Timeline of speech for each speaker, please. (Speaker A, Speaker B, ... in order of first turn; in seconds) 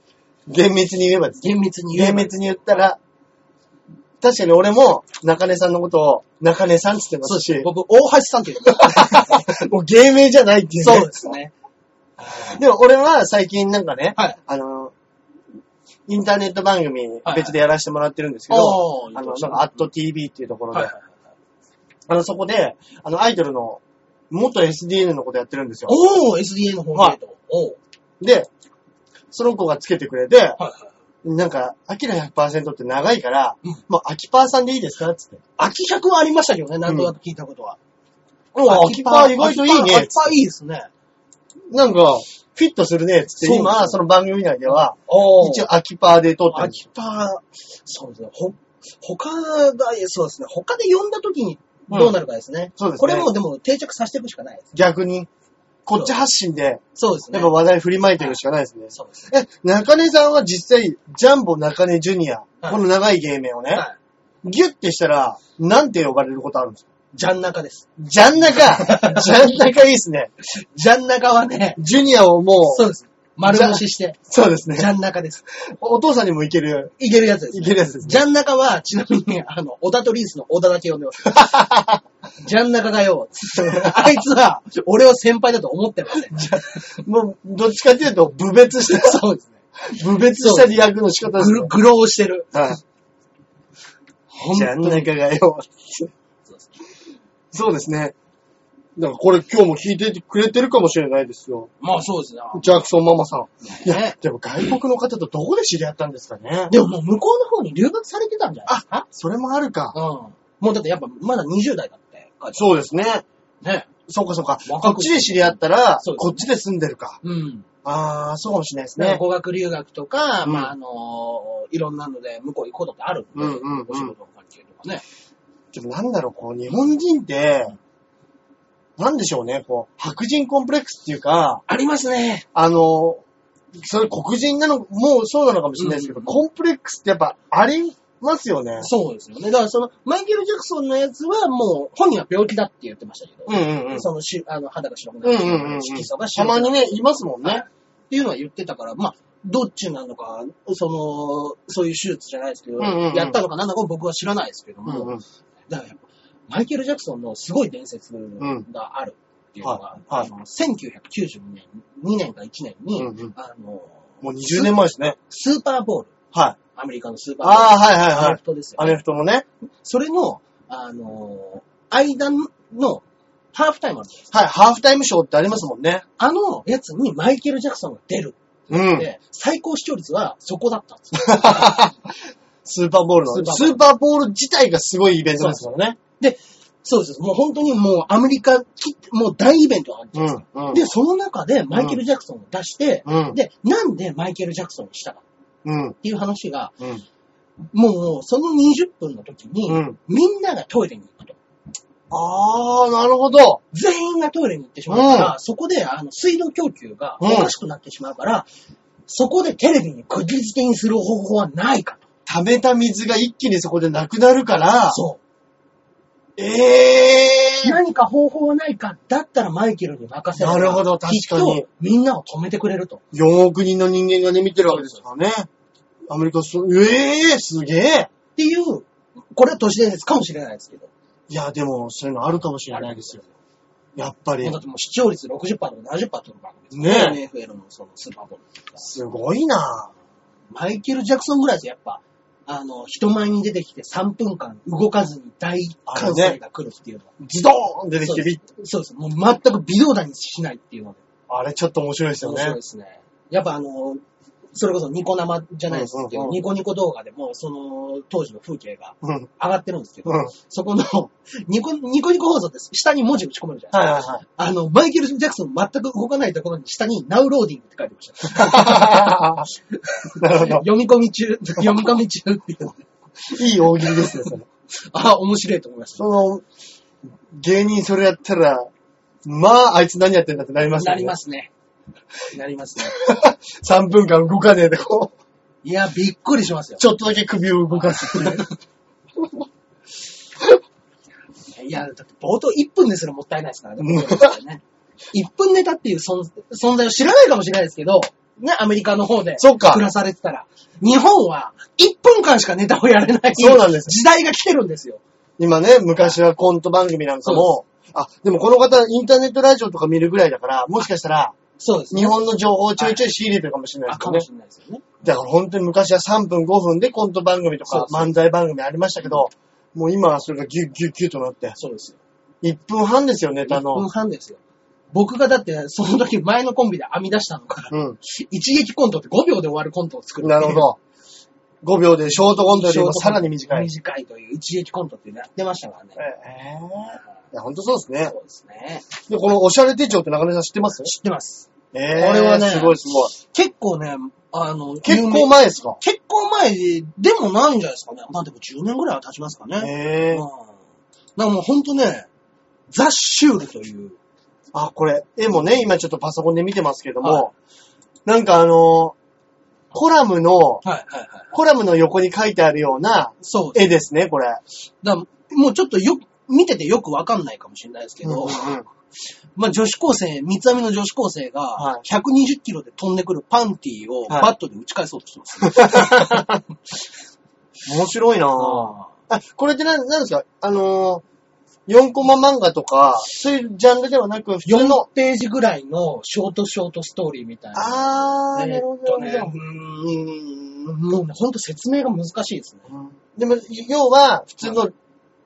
Speaker A: 0.5-3.0, 4.2-7.7, 8.7-11.3, 12.4-14.9, 16.1-20.9, 22.1-26.0, 28.2-28.5, 29.3-30.6, 31.2-35.4, 36.9-37.1, 38.6-40.4, 41.7-46.8, 51.9-52.2, 52.8-53.3, 54.7-55.3, 55.9-63.9, 64.4-66.9, 68.0-70.3, 71.8-72.9, 73.4-74.9, 75.5-76.9, 77.5-78.2, 81.3-82.0, 83.6-84.2, 86.3-89.2, 89.9-91.7, 92.5-92.8, 94.5-96.1, 97.5-98.2, 99.0-101.7, 102.5-106.7, 108.7-110.0, 112.5-113.2, 114.1-117.2, 117.8-119.2, 120.5-120.7, 123.4-124.1, 125.7-127.7, 129.0-131.6, 132.5-133.2, 133.8-138.9, 143.5-144.1, 145.2-147.6, 152.8-153.4, 154.9-155.2, 158.4-158.7, 159.6-160.3, 163.0-163.3, 164.2-165.2, 166.3-166.6, 167.4-169.4, 174.3-176.1, 178.7-179.1, 181.2-182.1, 182.7-186.0, 190.2-190.8, 191.7-192.0, 193.1-193.4, 195.7-196.0, 199.7-200.0, 202.1-203.6, 204.9-205.3, 207.2-207.5, 212.3-215.0, 216.4-217.8, 220.4-221.7, 223.1-225.5, 226.1-228.1, 231.3-233.2, 234.0-234.6, 236.7-237.2, 238.8-239.9, 245.9-246.4, 247.2-248.4, 251.3-252.6, 255.7-256.4, 259.0-259.3, 260.1-260.3, 263.7-264.2, 268.3-269.5, 270.2-270.7, 273.3-274.5, 276.0-276.4, 277.3-278.7, 279.2-281.2, 282.9-285.1, 286.8-288.5, 293.8-294.3, 299.4-299.8, 303.4-304.0, 305.4-311.4, 311.9-314.3, 315.0-321.6, 322.4-323.9, 327.7-328.0, 330.2-330.8, 331.6-333.7, 336.0-338.1, 339.1-340.9, 341.7-343.1, 344.8-345.8, 349.6-350.2, 354.5-357.3, 358.1-358.9, 359.7-360.6, 361.3-364.4, 368.0-368.7, 371.6-371.8, 375.4-376.4, 377.7-381.0, 381.7-384.9, 387.6-389.4, 392.7-394.7
Speaker B: 1.4-2.5, 7.2-9.5, 10.8-11.5, 12.2-12.6, 17.2-17.6, 18.5-19.8, 20.7-21.0, 25.9-27.8, 30.6-30.9, 35.6-37.8, 38.5-40.9, 43.4-44.0, 44.7-45.7, 46.5-54.7, 57.0-57.6, 58.9-59.2, 67.1-67.9, 68.5-69.4, 70.4-71.8, 72.7-74.2, 74.8-75.5, 77.0-81.7, 82.4-86.8, 88.8-89.6, 90.2-92.5, 94.3-95.1, 101.8-102.8, 103.6-104.2, 106.7-109.1, 109.9-112.8, 113.6-113.9, 114.7-116.5, 117.2-117.7, 119.0-125.0, 131.7-132.5, 135.8-136.4, 138.8-166.1, 166.7-169.0, 169.8-174.3, 176.2-181.8, 183.3-183.8, 185.4-185.7, 186.2-195.2, 196.0-196.8, 197.7-201.4, 203.7-208.5, 209.1-212.0, 214.9-215.2, 217.6-223.0, 224.7-225.0, 228.4-230.9, 232.7-233.3, 234.4-238.9, 240.5-247.1, 248.0-251.0, 252.2-254.0, 254.6-276.1, 280.7-281.5, 282.3-283.0, 285.6-286.8, 287.7-288.5, 291.5-305.0, 307.2-307.5, 311.6-312.2, 312.8-313.1, 313.9-314.9, 317.7-318.1, 321.6-322.0, 323.5-324.4, 324.9-330.7, 332.3-336.0, 338.1-338.9, 340.8-350.5, 351.2-352.1, 352.7-354.0, 357.0-357.3, 360.6-361.3, 363.2-363.7, 364.8-368.6, 369.4-376.4, 378.4-378.9, 384.4-392.7